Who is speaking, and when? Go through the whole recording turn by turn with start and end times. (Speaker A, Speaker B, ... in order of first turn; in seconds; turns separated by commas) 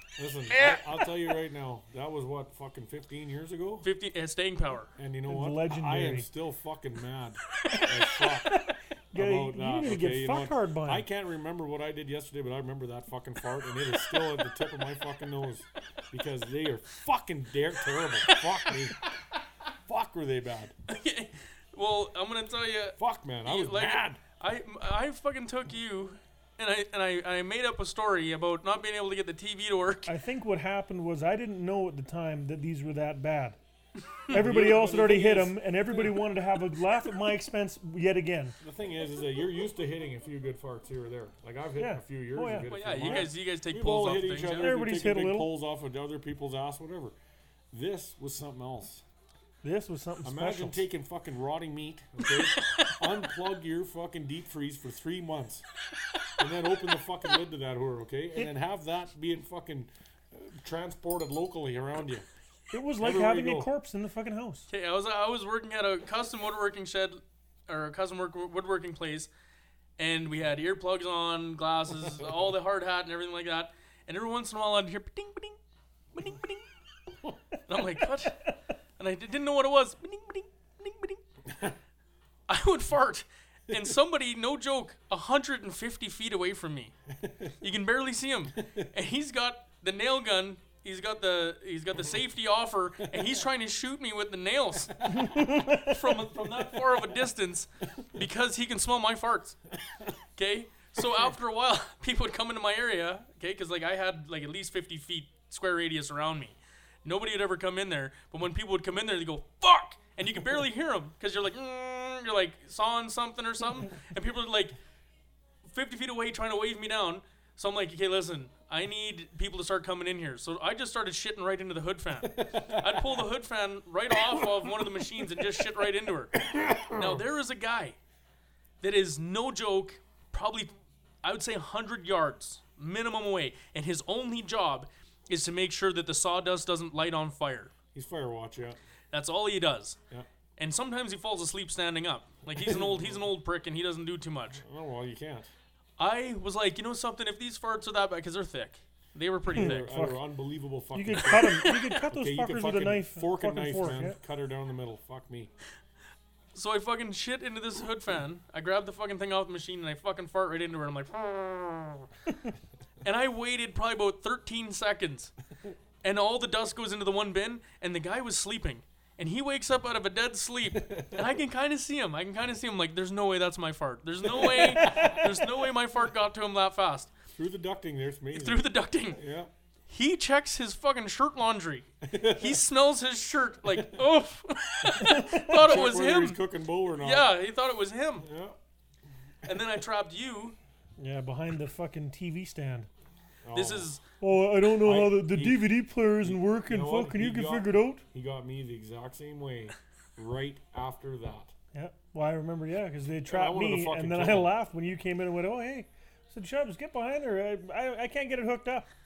Speaker A: 0.2-3.9, Speaker B: 0.5-1.1, Speaker B: 3.8-4.9, Speaker A: 5.0-8.6, Speaker C: 5.3-6.3, Speaker C: 7.7-11.1, Speaker A: 9.1-18.9, Speaker A: 19.9-20.7, Speaker B: 20.9-30.1, Speaker A: 23.0-24.2, Speaker C: 30.1-33.6, Speaker C: 34.3-38.5, Speaker A: 34.3-35.7, Speaker A: 38.6-47.1, Speaker C: 41.8-43.2, Speaker B: 42.6-44.7, Speaker C: 44.5-45.5, Speaker A: 47.7-49.0, Speaker C: 49.6-50.9, Speaker A: 50.2-55.6, Speaker A: 56.4-62.2, Speaker C: 62.7-64.7, Speaker A: 63.0-63.7, Speaker B: 64.7-69.3, Speaker B: 70.0-75.6, Speaker B: 76.1-76.6, Speaker B: 77.7-81.2, Speaker B: 82.5-86.9, Speaker A: 87.2-87.5, Speaker B: 87.6-99.6, Speaker C: 95.1-96.2, Speaker B: 100.3-114.7, Speaker B: 115.7-126.4, Speaker A: 122.2-123.2, Speaker A: 126.4-127.2, Speaker B: 126.9-128.0, Speaker B: 128.8-130.7, Speaker B: 131.2-137.7, Speaker A: 137.9-138.8, Speaker B: 139.1-140.0, Speaker B: 140.6-144.6, Speaker A: 142.5-143.2, Speaker A: 144.6-145.5, Speaker B: 146.0-149.9, Speaker A: 149.5-155.5, Speaker C: 149.5-150.2, Speaker C: 150.9-154.2, Speaker B: 151.3-151.9, Speaker B: 156.5-162.1, Speaker B: 163.0-165.3, Speaker B: 166.0-177.1, Speaker A: 170.7-171.2, Speaker A: 174.4-175.2, Speaker A: 177.3-179.5, Speaker B: 178.3-179.2, Speaker B: 179.9-186.4, Speaker A: 182.0-182.6, Speaker C: 185.0-185.7, Speaker A: 185.5-187.3, Speaker B: 187.0-188.2, Speaker A: 188.2-188.6, Speaker B: 189.4-190.6, Speaker C: 191.0-192.9, Speaker A: 193.4-194.0, Speaker B: 193.5-194.0, Speaker C: 194.2-198.0, Speaker A: 194.8-195.7, Speaker A: 196.2-201.5, Speaker C: 201.7-208.8, Speaker A: 203.3-204.5